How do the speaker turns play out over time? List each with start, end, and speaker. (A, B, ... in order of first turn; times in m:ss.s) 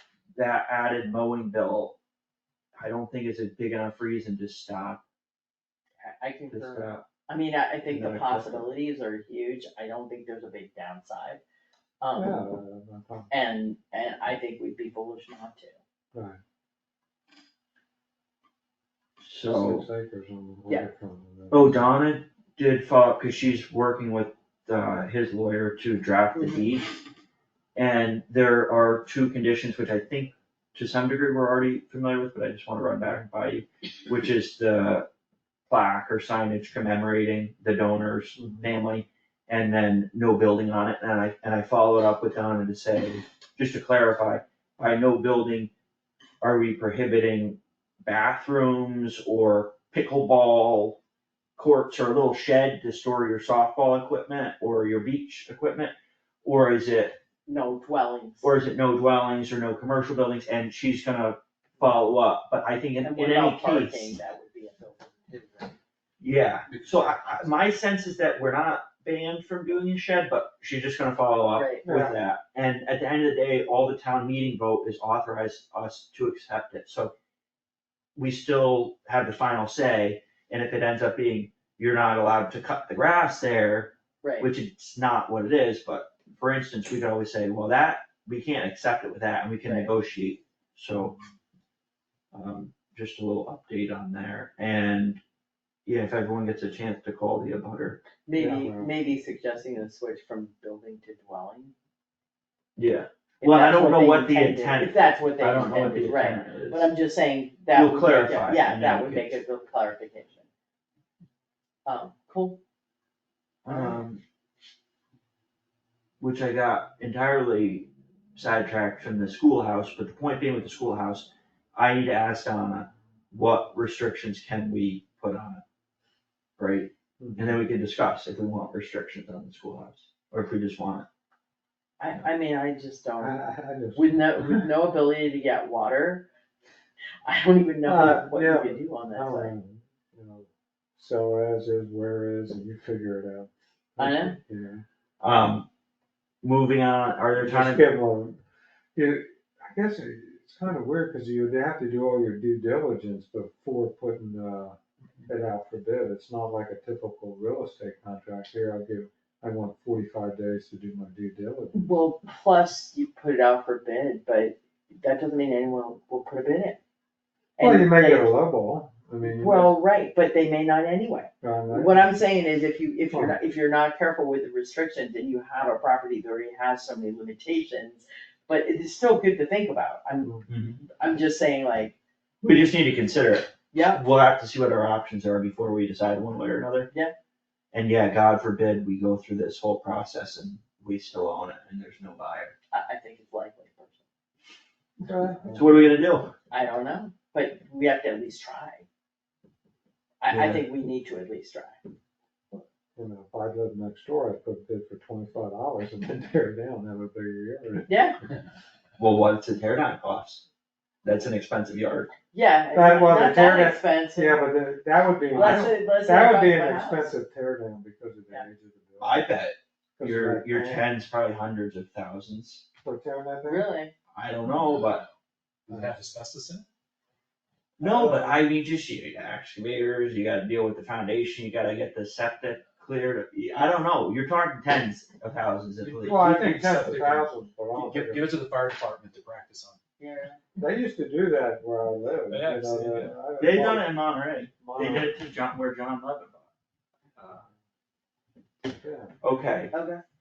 0:00.3-0:01.9 A
0:02.8-0:05.0 A
0:06.0-0:11.4 B
0:06.5-0:06.9 C
0:06.7-0:07.0 A
0:07.9-0:08.7 A
0:12.0-0:12.6 B
0:12.1-0:13.3 C
0:13.3-0:15.8 B
0:19.2-0:19.8 A
0:19.4-0:21.8 C
0:21.5-0:26.9 A
0:27.8-0:35.0 A
0:35.7-0:45.7 A
0:38.4-0:38.7 C
0:46.4-0:51.0 A
0:51.6-0:55.9 A
0:56.4-0:57.2 A
0:57.5-0:58.5 B
0:58.4-1:04.2 A
1:03.0-1:05.8 B
1:06.2-1:17.1 A
1:06.7-1:07.7 D
1:11.5-1:11.8 B
1:11.8-1:12.2 C
1:18.2-1:31.2 A
1:24.2-1:24.5 B
1:29.6-1:29.9 B
1:32.3-1:35.2 A
1:35.8-1:38.0 A
1:38.2-1:41.7 B
1:38.4-1:38.9 C
1:42.8-1:46.9 A
1:43.4-1:50.5 B
1:47.7-1:49.4 A
1:51.8-1:52.6 B
1:53.6-1:54.2 A
1:56.2-2:05.6 A
2:06.6-2:11.0 A
2:07.2-2:07.6 C
2:12.0-2:13.4 B
2:13.2-2:14.6 C
2:13.9-2:16.3 B
2:17.2-2:19.5 B
2:17.8-2:24.8 C
2:24.0-2:24.4 B
2:25.2-2:25.7 A
2:26.4-2:27.9 A
2:27.3-2:28.4 C
2:28.9-2:41.9 C
2:41.7-2:46.8 B
2:47.6-2:48.3 B
2:47.6-2:49.7 C
2:49.2-3:00.4 B
2:51.4-2:52.1 C
2:53.1-2:53.4 C
3:00.5-3:00.8 A
3:00.9-3:01.9 B
3:02.4-3:06.9 A
3:03.7-3:04.0 B
3:07.7-3:12.5 A
3:12.7-3:14.0 B
3:15.0-3:16.0 C
3:15.5-3:16.3 A
3:16.5-3:18.8 B
3:20.2-3:21.8 B
3:20.3-3:20.6 A
3:22.5-3:27.9 C
3:27.8-3:28.2 B
3:29.0-3:30.4 A
3:31.0-3:32.1 A
3:32.3-3:34.5 B
3:32.7-3:39.3 C
3:35.3-3:37.1 B
3:39.0-3:42.6 A
3:40.0-3:40.9 C
3:42.8-3:43.7 C
3:43.4-3:43.9 B
3:44.1-3:45.0 A
3:44.6-3:45.1 D
3:45.7-3:46.6 D
3:45.7-3:46.0 C
3:47.8-3:56.3 A
3:47.8-3:48.4 C
3:55.8-3:59.8 D
3:56.0-3:58.3 C
4:00.0-4:00.4 B
4:00.6-4:03.9 C
4:02.3-4:03.2 D
4:03.4-4:06.5 A
4:04.6-4:05.1 C
4:07.2-4:07.5 A
4:08.8-4:09.1 C
4:09.2-4:09.7 A
4:09.7-4:10.0 B